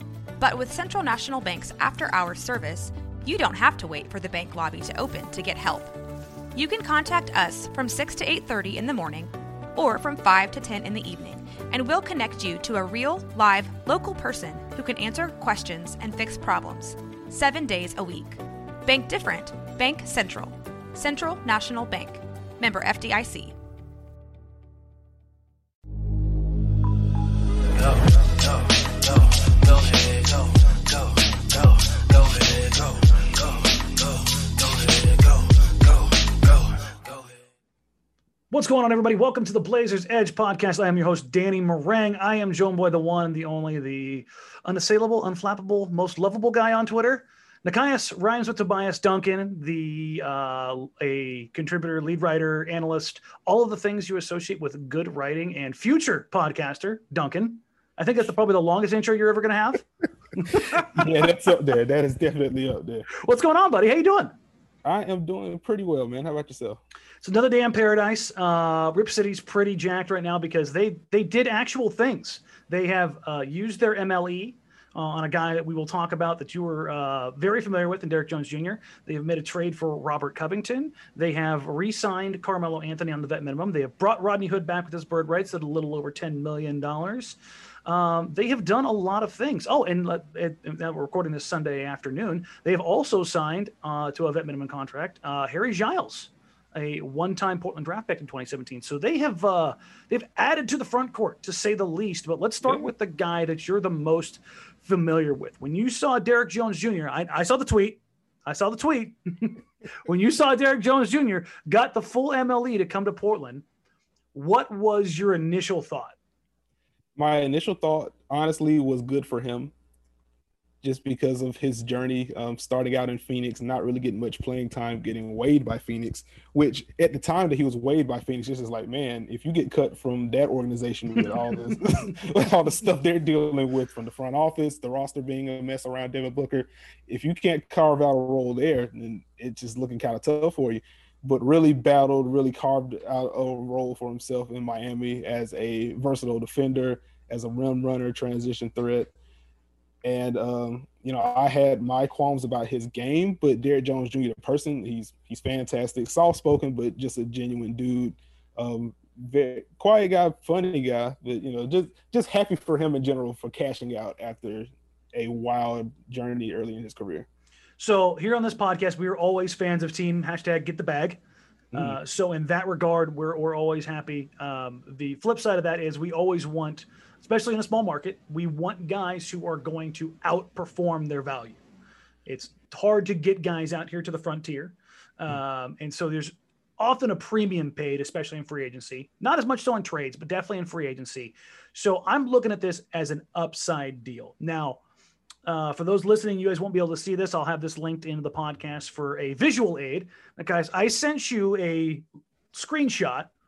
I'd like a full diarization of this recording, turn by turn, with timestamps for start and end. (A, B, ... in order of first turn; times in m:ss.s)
0:00.4-0:05.9 A
0:06.6-0:23.6 A
0:38.5-0:59.8 B
1:00.4-1:01.1 B
1:00.6-1:03.1 C
1:03.2-1:04.3 B
1:04.8-1:06.8 C
1:07.2-1:53.6 B
1:54.3-1:56.2 B
1:57.2-1:59.7 C
2:00.8-2:29.1 C
2:30.0-2:47.3 C
2:47.8-2:51.2 B
2:51.7-2:52.0 C
2:51.7-3:01.6 B
3:02.3-3:14.8 B
3:15.4-3:23.3 B